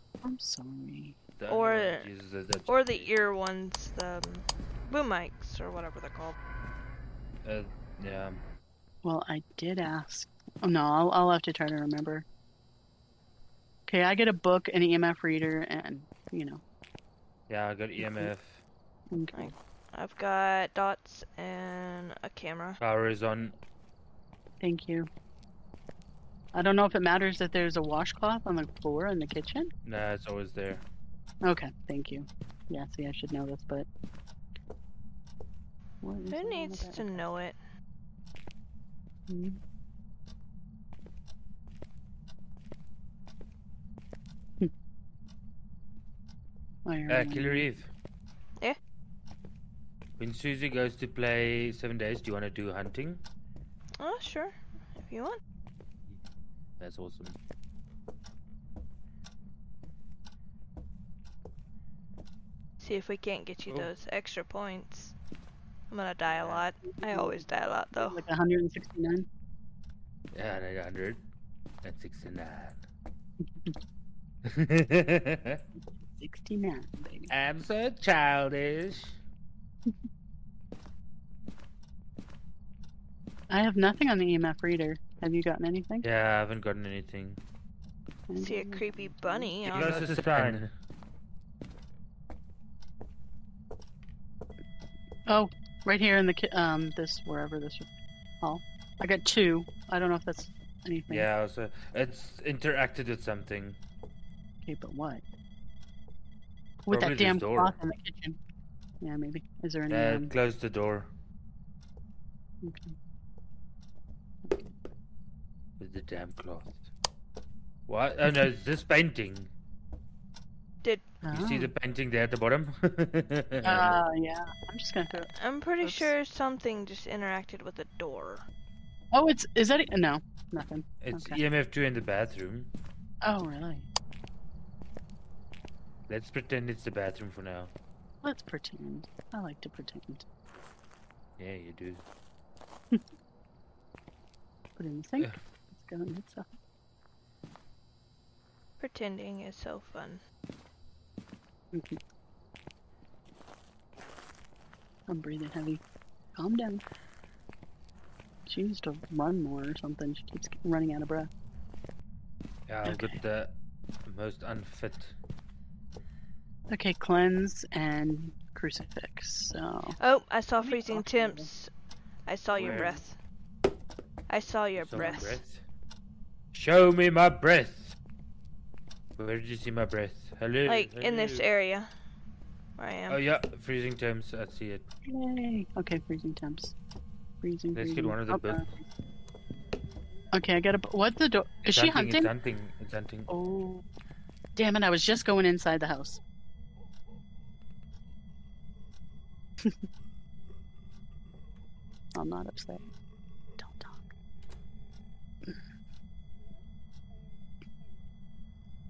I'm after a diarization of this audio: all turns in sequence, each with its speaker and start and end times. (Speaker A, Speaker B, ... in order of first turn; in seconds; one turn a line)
Speaker A: 0.2-1.2
Speaker B: 1.4-3.1
Speaker C: 1.5-2.1
Speaker C: 2.7-6.4
Speaker B: 7.5-8.4
Speaker A: 9.0-12.2
Speaker A: 13.9-16.6
Speaker B: 17.5-18.6
Speaker A: 18.0-18.3
Speaker A: 19.1-19.5
Speaker C: 19.3-22.8
Speaker B: 22.8-23.6
Speaker A: 24.6-25.1
Speaker A: 26.5-29.7
Speaker B: 29.9-30.8
Speaker A: 31.4-33.9
Speaker A: 36.0-37.3
Speaker C: 36.3-37.6
Speaker A: 39.3-39.6
Speaker A: 46.9-47.7
Speaker B: 47.1-47.9
Speaker B: 50.2-53.2
Speaker C: 54.0-55.4
Speaker B: 56.8-57.4
Speaker C: 62.8-65.2
Speaker C: 65.9-68.2
Speaker B: 66.3-66.7
Speaker A: 66.9-69.3
Speaker B: 70.3-71.2
Speaker B: 71.8-72.8
Speaker A: 73.4-73.7
Speaker B: 74.5-75.6
Speaker A: 75.8-77.3
Speaker B: 77.3-79.2
Speaker A: 83.5-86.0
Speaker B: 86.0-87.4
Speaker A: 88.3-90.2
Speaker C: 88.4-90.2
Speaker B: 89.7-90.7
Speaker A: 95.3-97.9
Speaker A: 98.4-101.3
Speaker B: 101.1-103.8
Speaker A: 104.6-105.2
Speaker A: 106.8-108.4
Speaker B: 106.9-107.8
Speaker A: 109.0-110.3
Speaker B: 109.9-111.1
Speaker A: 112.6-113.0
Speaker B: 115.8-116.8
Speaker B: 117.9-119.5
Speaker A: 121.2-121.7
Speaker B: 121.3-124.0
Speaker A: 123.6-125.3
Speaker C: 125.3-128.4
Speaker A: 125.8-126.1
Speaker A: 129.1-131.4
Speaker B: 131.0-132.7
Speaker A: 133.2-133.9
Speaker B: 136.1-137.7
Speaker A: 138.2-140.2
Speaker B: 141.4-142.0
Speaker A: 144.8-146.5
Speaker C: 148.8-150.2
Speaker A: 151.7-152.0
Speaker A: 155.1-155.8
Speaker A: 156.4-156.8
Speaker A: 158.5-161.3
Speaker B: 162.7-163.6
Speaker A: 162.8-163.2
Speaker B: 164.1-165.2
Speaker A: 166.7-170.0
Speaker C: 170.0-171.7
Speaker A: 170.6-171.5
Speaker C: 172.3-173.2
Speaker B: 172.6-173.0
Speaker C: 174.3-175.4
Speaker B: 174.8-175.6
Speaker B: 176.5-178.0
Speaker B: 179.2-181.4
Speaker C: 180.7-181.9
Speaker C: 182.8-183.2
Speaker B: 183.1-184.8
Speaker A: 185.1-186.8
Speaker A: 187.4-188.8
Speaker B: 187.7-188.6
Speaker A: 190.3-192.3
Speaker B: 191.7-193.3
Speaker A: 193.3-193.8
Speaker A: 194.6-196.2
Speaker A: 202.2-202.9
Speaker A: 203.6-204.1